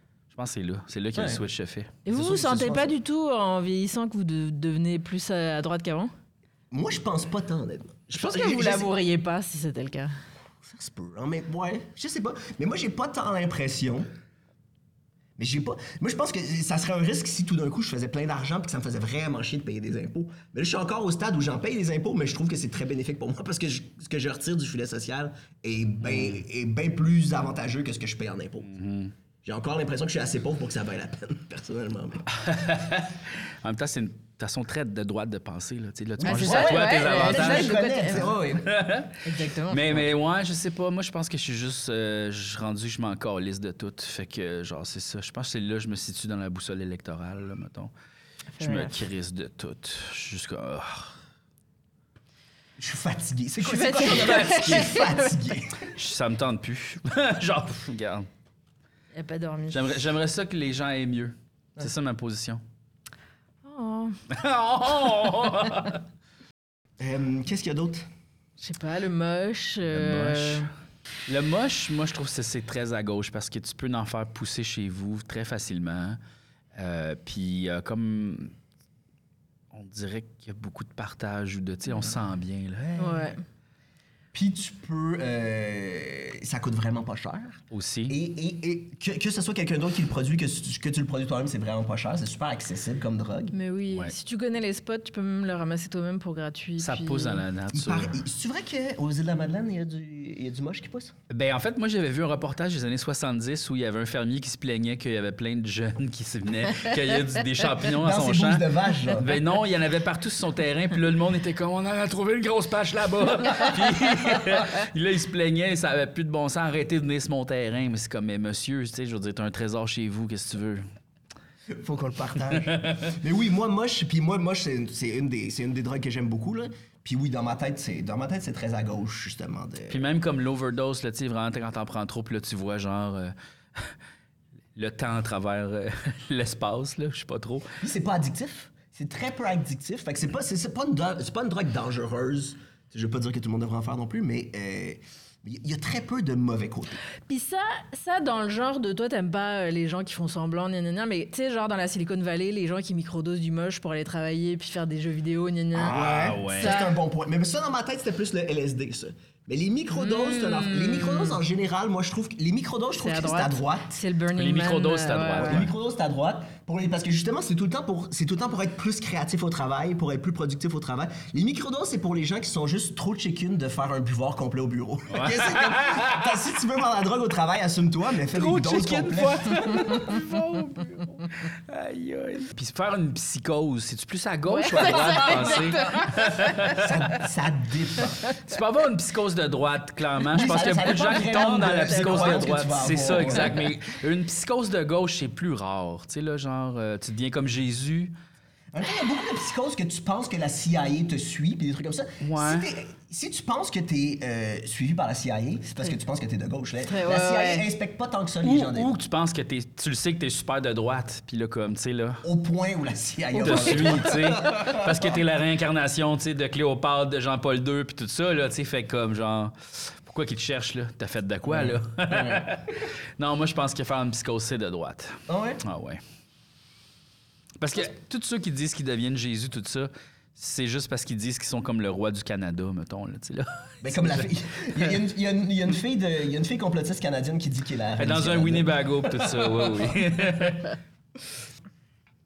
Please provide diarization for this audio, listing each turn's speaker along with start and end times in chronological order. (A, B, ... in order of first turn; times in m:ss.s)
0:00.3-0:02.0 A
0:01.2-0:01.4 B
0:02.0-0:06.1 C
0:02.1-0:02.9 B
0:06.7-0:08.9 B
0:08.1-0:10.1 C
0:10.6-0:14.1 B
0:15.4-0:28.7 B
0:26.0-0:26.4 A
0:28.7-0:29.1 A
0:29.4-0:32.3 B
0:32.3-0:47.9 A
0:36.2-0:38.8 B
0:36.2-0:38.3 C
0:39.2-0:40.1 C
0:48.6-0:49.0 C
0:48.6-0:51.2 A
0:52.8-0:55.9 B
0:53.6-0:55.3 C
0:54.1-0:54.9 A
0:55.9-0:58.3 A
0:59.1-1:00.0 C
0:59.7-1:02.6 A
1:03.6-1:04.2 C
1:04.3-1:06.0 A
1:07.0-1:08.1 B
1:08.6-1:10.7 C
1:09.9-1:10.7 A
1:11.3-1:16.2 A
1:16.8-1:18.5 A
1:19.7-1:23.4 A
1:23.0-1:23.4 C
1:24.3-1:33.5 B
1:27.7-1:28.2 A
1:33.5-1:37.4 C
1:36.8-1:38.2 A
1:37.7-1:41.1 B
1:41.3-2:00.8 A
1:47.8-1:49.3 B
2:01.7-2:10.0 B
2:02.5-2:03.1 A
2:09.9-2:13.9 A
2:14.8-2:17.7 A
2:17.8-2:27.0 B
2:27.3-2:37.0 C
2:35.8-2:44.0 B
2:35.8-2:36.8 A
2:39.9-2:41.4 C
2:43.0-2:45.6 C
2:44.4-2:45.7 A
2:45.4-3:00.1 B
2:55.1-2:56.4 A
2:58.3-3:07.0 A
3:04.5-3:06.5 C
3:06.7-3:08.2 B
3:08.4-3:18.1 A
3:10.3-3:13.7 B
3:11.4-3:12.6 C
3:18.7-3:28.9 B
3:22.2-3:22.7 A
3:26.8-3:27.7 C
3:28.4-3:32.2 A
3:32.2-3:35.1 B
3:33.4-3:33.9 C
3:33.4-3:46.0 A
3:41.4-3:42.6 B
3:45.3-3:45.6 B
3:47.6-3:55.0 A
3:53.8-4:00.0 B
3:58.0-4:00.8 A